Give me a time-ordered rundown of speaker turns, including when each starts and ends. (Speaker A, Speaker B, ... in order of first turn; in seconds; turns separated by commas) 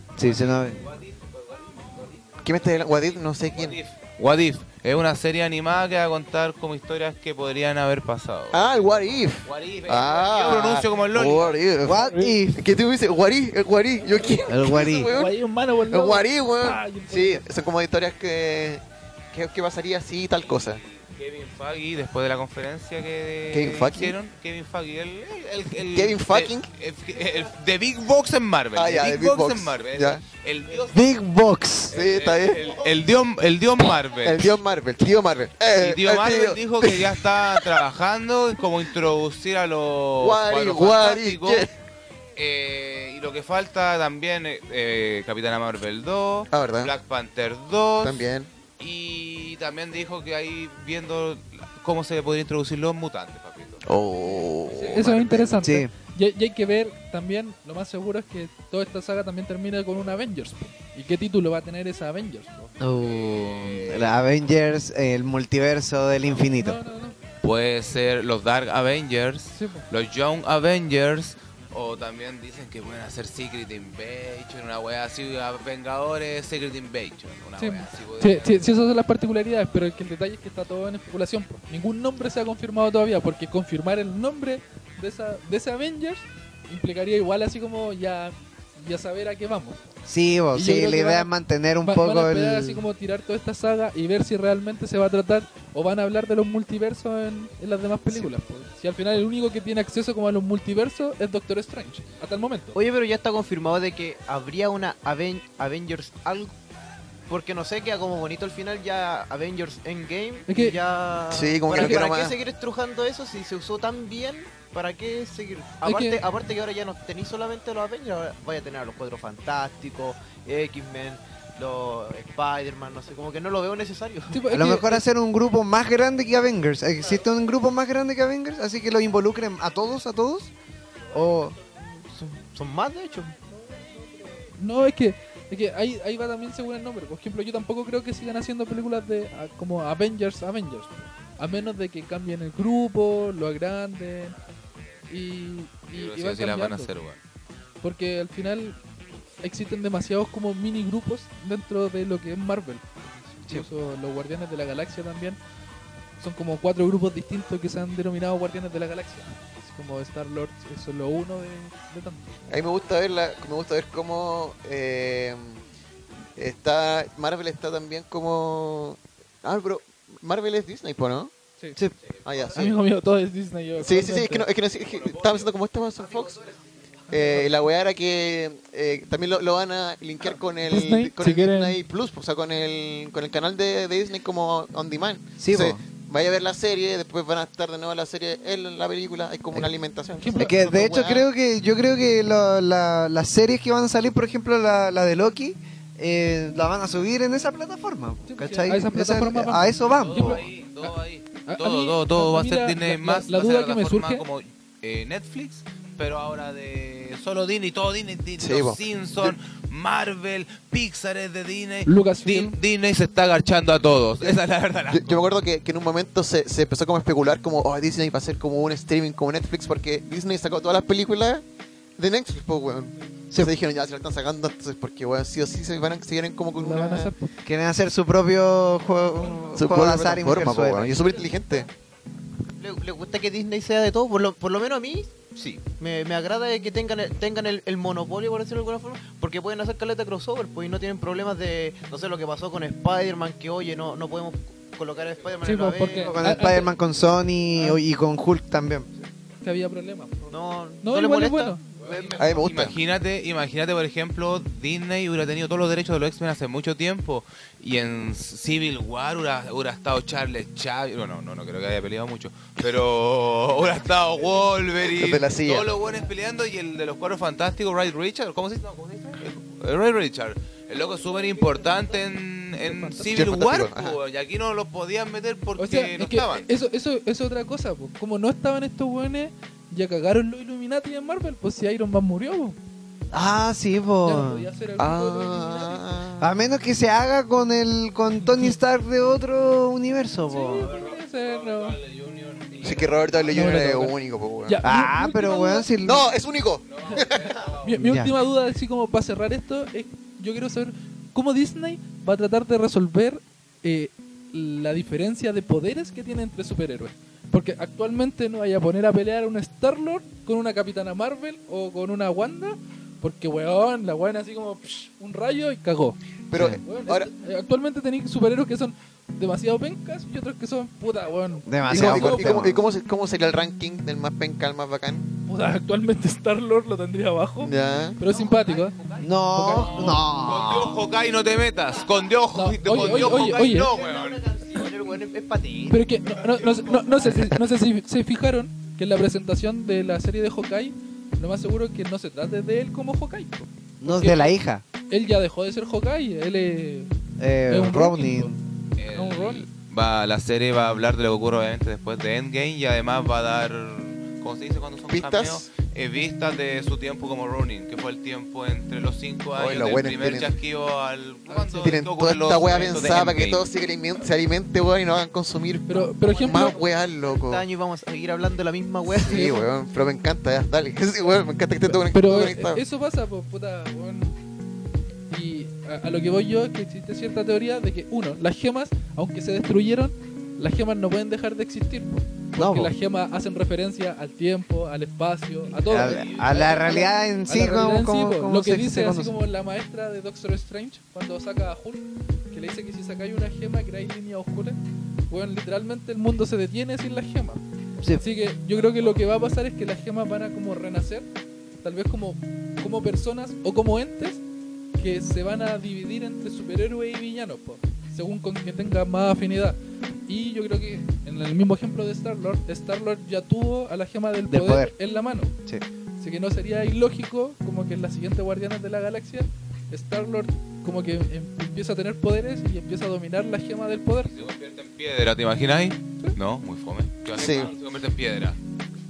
Speaker A: 0.2-0.8, Speaker B: 0.2-2.1, Speaker C: 2.4-3.8, Speaker B: 3.5-8.6, Speaker C: 8.5-15.3, Speaker B: 9.4-11.6, Speaker A: 11.8-12.7, Speaker D: 11.9-12.3, Speaker A: 14.5-15.1, Speaker D: 15.1-17.4, Speaker C: 15.9-18.8, Speaker C: 19.3-20.8, Speaker B: 20.4-31.0, Speaker C: 23.5-24.1, Speaker C: 25.9-26.7, Speaker C: 28.7-30.2, Speaker A: 30.9-32.0, Speaker B: 31.9-34.6, Speaker C: 31.9-32.8, Speaker C: 34.2-37.6, Speaker B: 35.8-41.7, Speaker C: 40.2-41.7, Speaker B: 42.4-48.3, Speaker C: 46.5-46.9, Speaker C: 48.0-48.5, Speaker B: 48.8-53.8, Speaker C: 53.8-55.7, Speaker D: 54.7-62.7, Speaker A: 55.6-55.9, Speaker A: 62.8-66.8, Speaker B: 63.0-64.2, Speaker D: 66.6-67.2, Speaker B: 67.4-78.8, Speaker D: 69.5-69.8, Speaker D: 77.6-89.8, Speaker A: 90.0-92.8, Speaker D: 90.5-102.8, Speaker E: 102.7-106.5, Speaker E: 107.3-124.4, Speaker D: 110.5-110.8, Speaker C: 111.3-112.3, Speaker D: 115.8-116.2, Speaker D: 124.3-125.0, Speaker A: 124.5-130.5, Speaker A: 131.1-131.6, Speaker E: 131.6-133.3, Speaker D: 133.5-144.3, Speaker D: 145.1-146.9, Speaker B: 145.9-147.2, Speaker D: 147.8-148.8, Speaker D: 149.4-155.4, Speaker D: 156.2-162.3, Speaker C: 162.5-165.6, Speaker C: 166.3-171.3, Speaker C: 172.2-172.8, Speaker D: 172.5-174.4, Speaker C: 173.8-176.5, Speaker B: 175.0-175.4, Speaker C: 177.1-191.3, Speaker D: 177.1-177.5, Speaker D: 180.6-181.8, Speaker A: 185.4-185.8, Speaker D: 190.2-190.5, Speaker A: 190.3-200.4, Speaker D: 198.2-200.9, Speaker B: 200.0-215.3, Speaker D: 201.4-204.2, Speaker C: 208.4-209.3, Speaker D: 211.8-212.6, Speaker C: 214.9-221.4, Speaker C: 222.0-227.1, Speaker D: 226.6-227.3, Speaker A: 227.4-231.1, Speaker C: 229.5-231.7, Speaker E: 232.6-246.2, Speaker D: 245.4-246.7, Speaker A: 245.9-248.9, Speaker D: 249.4-251.6, Speaker E: 250.3-252.4, Speaker B: 251.8-276.4, Speaker C: 252.1-252.8, Speaker C: 264.8-265.7, Speaker D: 272.6-273.1, Speaker C: 273.1-274.0, Speaker D: 275.6-282.6, Speaker A: 283.1-284.5, Speaker D: 284.0-285.8, Speaker C: 284.8-286.3, Speaker A: 286.2-290.7, Speaker D: 288.2-288.5, Speaker D: 290.3-291.8, Speaker B: 290.6-293.3, Speaker C: 292.6-294.6, Speaker D: 293.3-295.7, Speaker A: 294.6-296.0, Speaker C: 295.8-297.4, Speaker B: 296.6-297.7, Speaker D: 297.6-316.0, Speaker A: 297.8-298.1, Speaker C: 316.3-317.1, Speaker A: 316.3-316.6, Speaker D: 316.6-322.4, Speaker A: 321.4-322.6, Speaker C: 321.7-325.1, Speaker D: 325.3-328.7, Speaker C: 327.4-328.0, Speaker E: 328.4-329.0, Speaker A: 329.0-330.8, Speaker D: 329.3-330.1, Speaker B: 329.5-334.2, Speaker D: 332.3-333.7, Speaker E: 332.8-336.9, Speaker D: 335.7-344.3, Speaker C: 337.0-337.3, Speaker A: 343.8-344.6, Speaker D: 344.9-346.9, Speaker A: 347.2-348.4, Speaker D: 347.5-348.3, Speaker B: 348.8-363.4, Speaker D: 348.9-349.5, Speaker C: 354.9-355.4, Speaker C: 359.3-360.3, Speaker D: 361.3-361.8, Speaker C: 361.6-367.4, Speaker D: 365.7-366.6, Speaker E: 365.9-369.4, Speaker C: 368.9-372.6, Speaker D: 369.0-369.4, Speaker D: 371.6-374.2, Speaker D: 375.1-394.6, Speaker A: 382.4-382.7, Speaker A: 385.6-389.1, Speaker B: 385.8-386.8, Speaker D: 395.1-397.4, Speaker D: 398.0-401.1, Speaker D: 401.6-404.2, Speaker D: 404.8-415.3, Speaker A: 414.3-414.7, Speaker D: 416.0-424.1, Speaker B: 424.1-428.4, Speaker C: 427.1-427.5